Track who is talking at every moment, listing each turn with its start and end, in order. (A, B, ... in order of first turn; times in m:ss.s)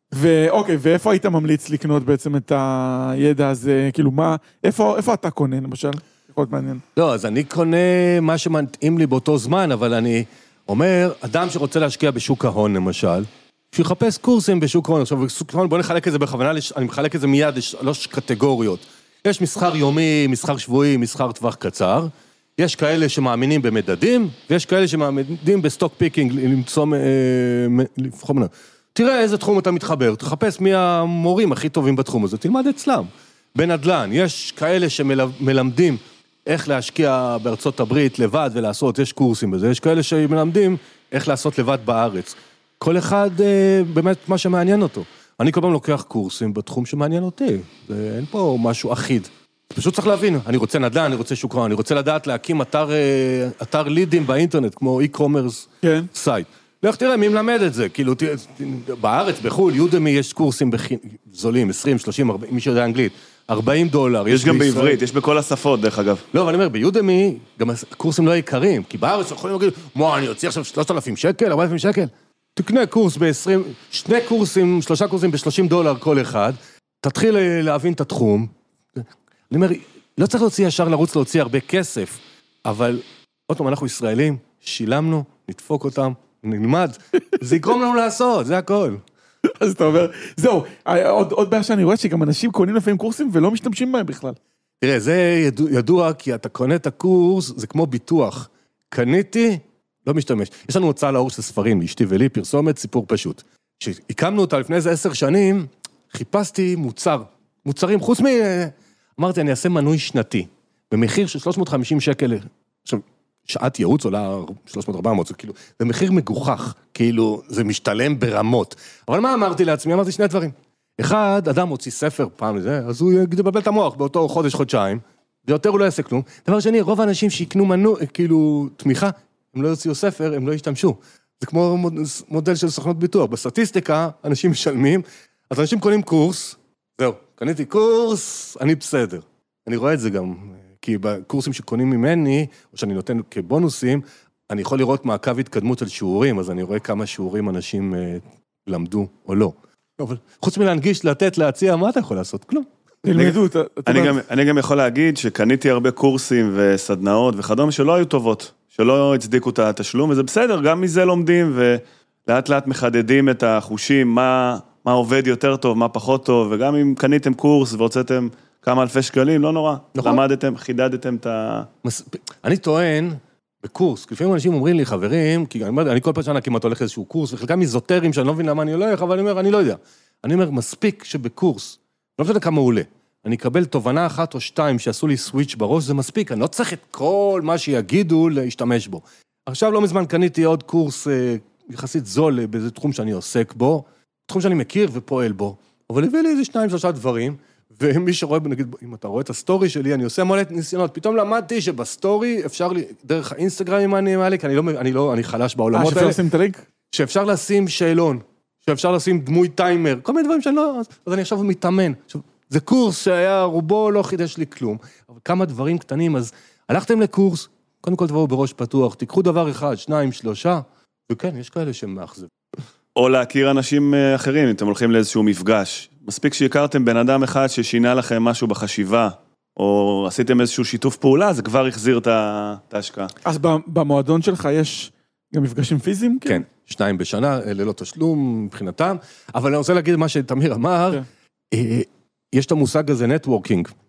0:00.1-0:06.8 A
0:07.0-1:05.0 B
0:55.8-0:56.1 A
1:04.3-1:06.2 C
1:06.3-1:29.0 B
1:29.6-1:34.4 A
1:34.8-2:33.3 B
2:33.0-2:34.2 A
2:33.9-2:51.7 C
2:50.0-2:50.2 B
2:51.8-3:26.2 B
3:25.7-3:26.6 A
3:26.9-3:42.3 B
3:43.0-3:53.1 C
3:53.2-3:56.4 A
3:56.2-4:03.7 B